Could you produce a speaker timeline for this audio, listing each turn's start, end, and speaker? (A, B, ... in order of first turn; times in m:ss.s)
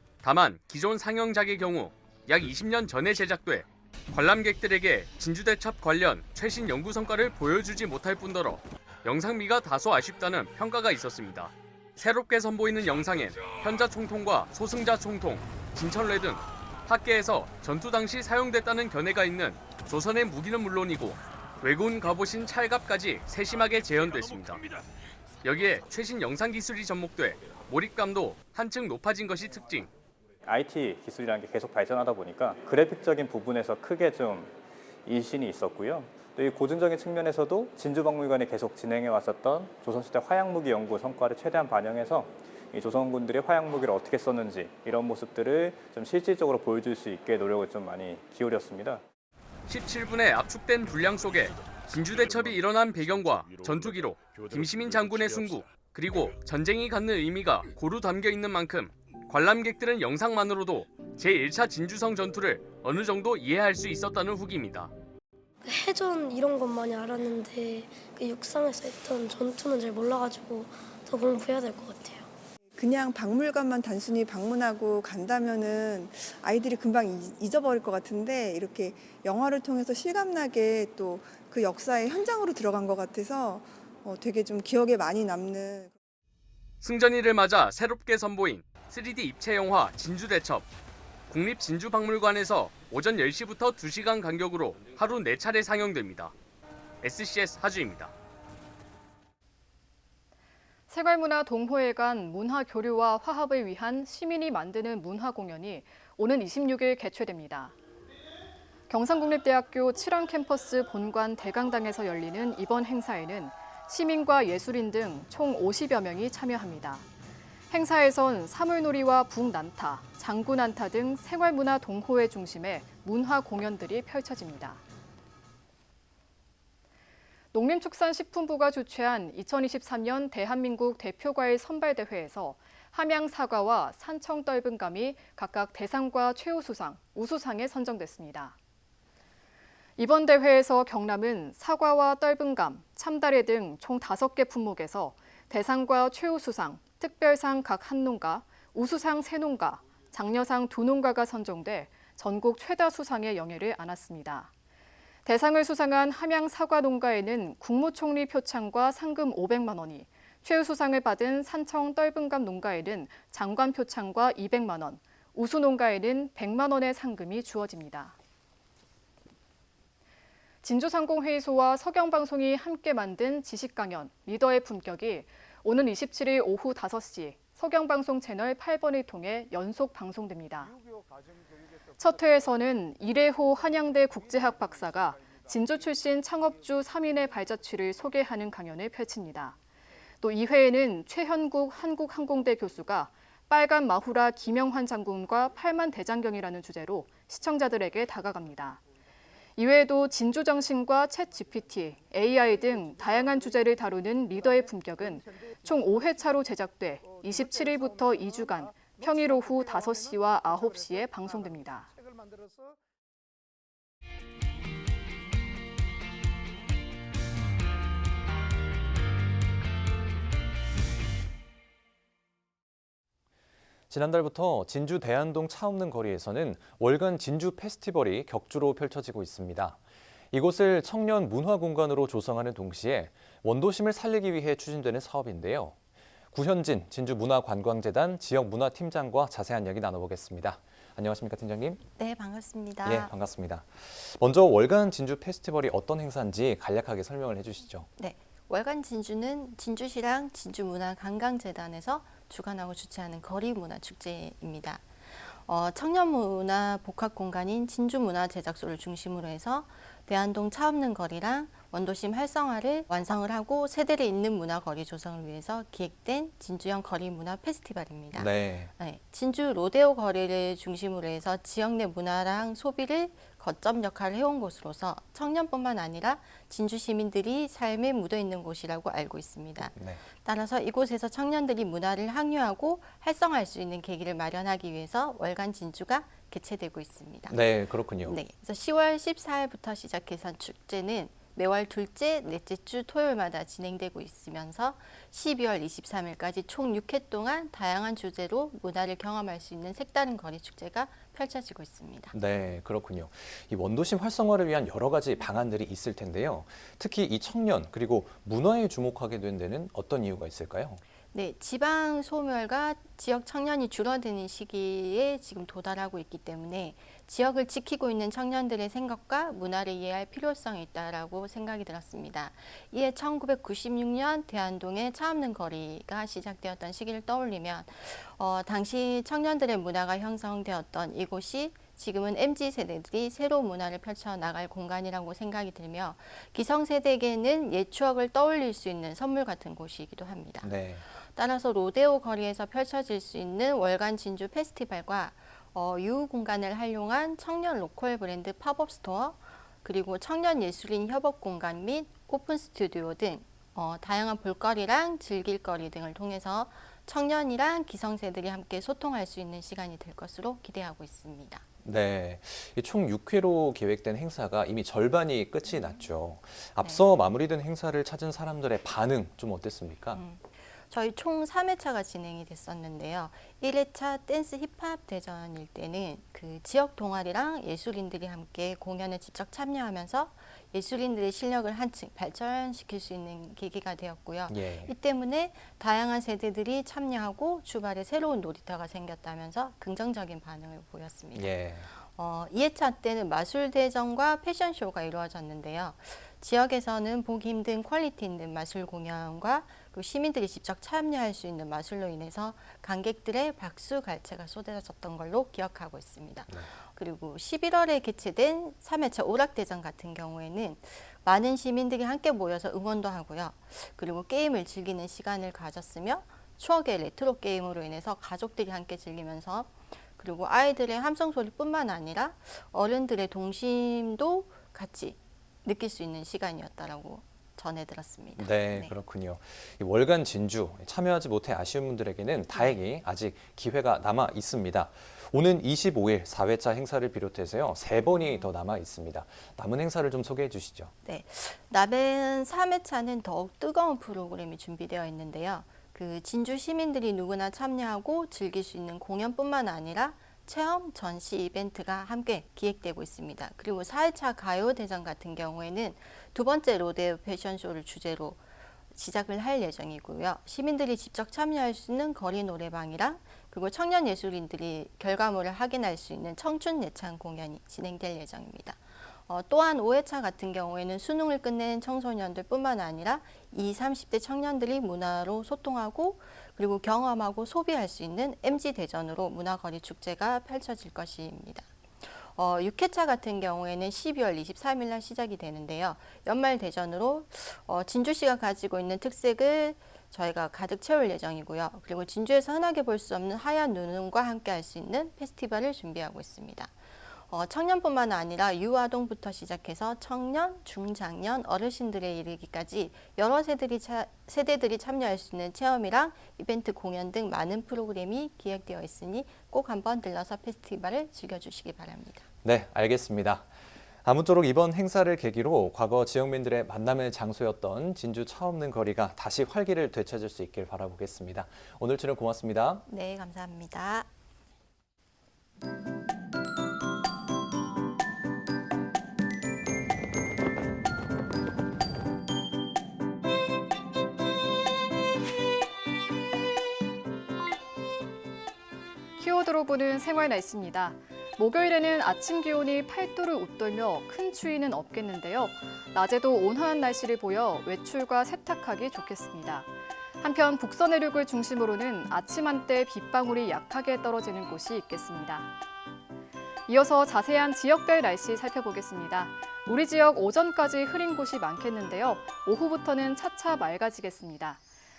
0:00.2-0:24.6 A
0:25.4-0:29.9 A
0:30.4-0:34.5 B
0:35.1-0:49.0 B
0:49.7-1:04.9 A
1:05.6-1:12.3 C
1:12.8-1:25.9 D
1:26.8-1:30.7 A
1:31.3-1:36.3 A
1:37.0-1:38.1 A
1:40.9-1:47.8 E
1:48.9-1:57.1 E
1:57.7-2:04.8 E
2:07.5-2:18.6 E
2:20.0-2:34.5 E
2:35.2-2:48.2 E
2:50.6-3:00.7 E
3:02.0-3:09.6 E
3:10.2-3:18.8 E
3:19.6-3:31.9 E
3:43.9-3:49.8 F
3:50.3-3:55.8 F
3:56.3-4:01.8 F
4:02.0-4:03.1 G
4:02.8-4:07.9 F
4:08.0-4:47.5 G
4:28.1-4:28.7 F
4:39.6-4:40.0 F
4:47.3-4:48.2 F
4:48.0-5:02.1 G
5:02.1-5:10.8 F
5:11.1-6:01.4 G
5:40.4-5:40.8 F
6:01.6-6:10.0 F
6:05.5-6:05.8 G
6:09.9-7:08.7 G
6:24.3-6:24.7 F
6:31.2-6:31.7 F
7:08.2-7:20.7 F
7:12.3-7:12.6 G
7:18.0-7:18.3 G
7:20.8-7:38.2 G
7:38.7-8:16.6 G
8:17.1-8:32.1 G
8:32.2-8:33.3 F
8:33.8-8:42.6 F
8:42.7-8:43.9 G
8:59.0-9:09.5 E
9:10.0-9:15.3 E
9:16.5-9:24.4 E